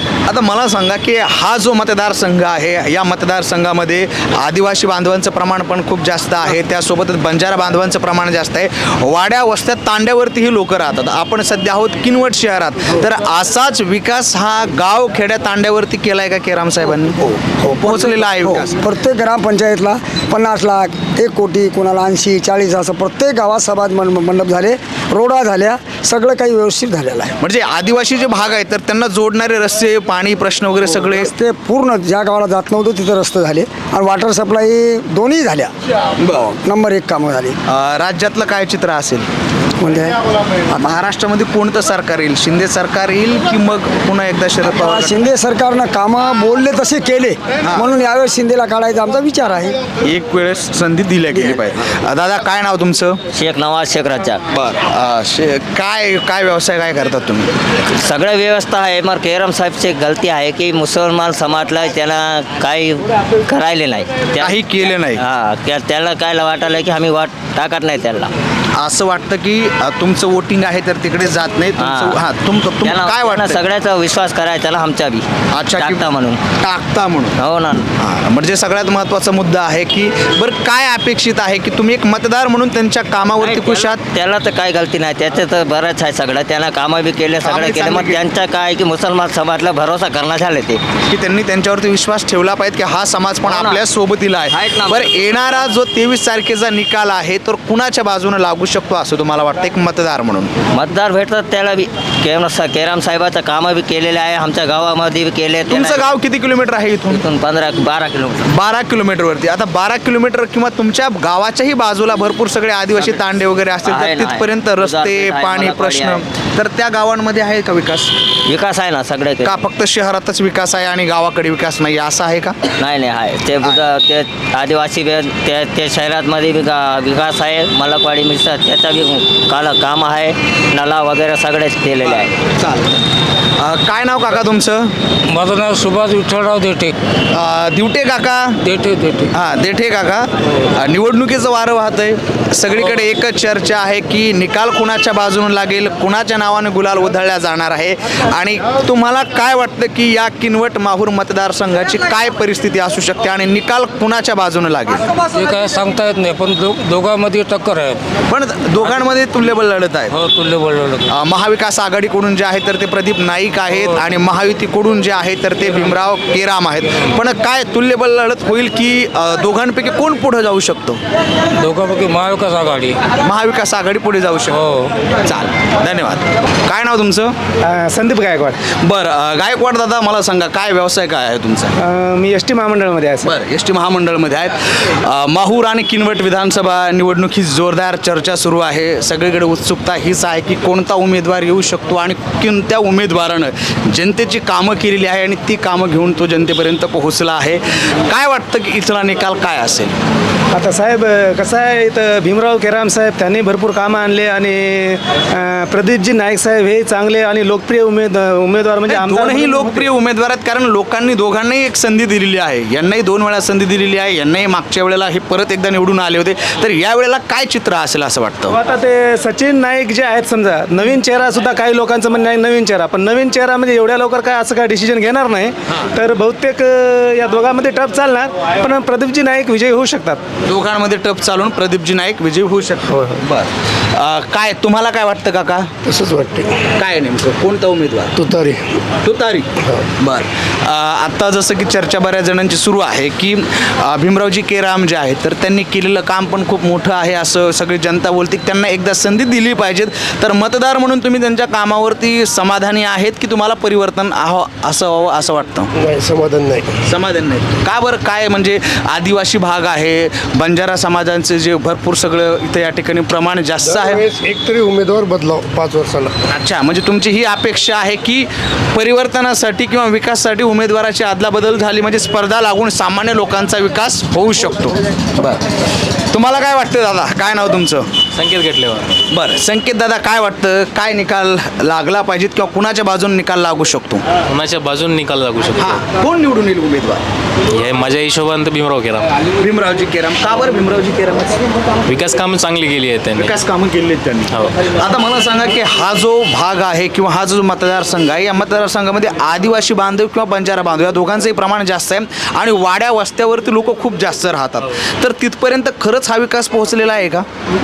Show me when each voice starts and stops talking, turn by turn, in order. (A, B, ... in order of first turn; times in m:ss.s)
0:00.3-0:17.2 A
0:17.4-0:27.4 B
0:17.8-0:18.7 A
0:27.4-0:31.3 A
0:31.1-0:35.7 B
0:36.2-0:36.4 A
0:36.3-0:37.6 B
0:37.7-0:39.2 A
0:39.8-0:40.2 B
0:40.7-0:45.2 A
0:44.6-0:49.8 B
0:47.6-0:47.9 A
0:50.0-0:53.2 A
0:53.3-0:54.4 C
0:54.5-0:57.5 A
0:58.0-1:04.6 C
1:04.4-1:05.2 A
1:05.2-1:08.3 C
1:08.8-1:13.6 A
1:11.8-1:12.2 C
1:12.8-1:15.2 C
1:15.5-1:17.4 A
1:15.8-1:16.4 C
1:17.4-1:17.8 C
1:18.0-1:24.0 A
1:23.4-1:30.8 C
1:27.4-1:28.3 A
1:31.1-1:40.5 A
1:33.5-1:33.8 C
1:34.5-1:35.6 C
1:40.7-1:46.2 C
1:45.7-1:47.2 A
1:47.1-1:48.5 C
1:48.5-1:58.1 A
1:53.8-1:56.2 C
1:58.5-1:59.6 C
1:59.4-2:02.6 A
2:02.8-2:12.3 C
2:12.5-2:12.9 A
2:13.6-2:14.9 A
2:15.3-2:16.9 D
2:17.3-2:18.6 A
2:18.6-2:19.3 D
2:19.3-2:35.0 A
2:35.3-2:38.0 D
2:38.3-2:40.1 A
2:40.1-2:41.1 D
2:41.1-2:51.0 A
2:43.7-2:44.0 D
2:51.6-2:53.0 D
2:53.2-2:54.6 A
2:54.5-2:54.9 D
2:55.2-2:57.3 A
2:57.6-2:58.6 E
2:58.7-3:01.7 A
3:01.8-3:03.3 E
3:03.2-3:19.9 A
3:20.5-3:29.9 E
3:28.9-3:38.6 A
3:38.5-3:50.2 E
3:45.7-3:45.9 A
3:50.4-3:55.7 A
3:55.8-3:56.6 F
3:56.8-3:58.1 A
3:58.2-3:58.8 F
3:59.0-3:59.4 A
4:00.0-4:15.7 A
4:15.8-4:16.8 F
4:16.9-4:24.0 A
4:23.6-4:26.1 F
4:26.3-4:35.4 A
4:36.1-4:37.9 A
4:38.1-4:38.9 G
4:39.1-4:44.0 A
4:44.3-4:45.8 G
4:45.6-4:47.0 A
4:47.5-4:49.1 G
4:49.4-4:51.4 A
4:51.9-4:53.4 G
4:53.2-5:07.2 A
4:54.3-4:54.6 G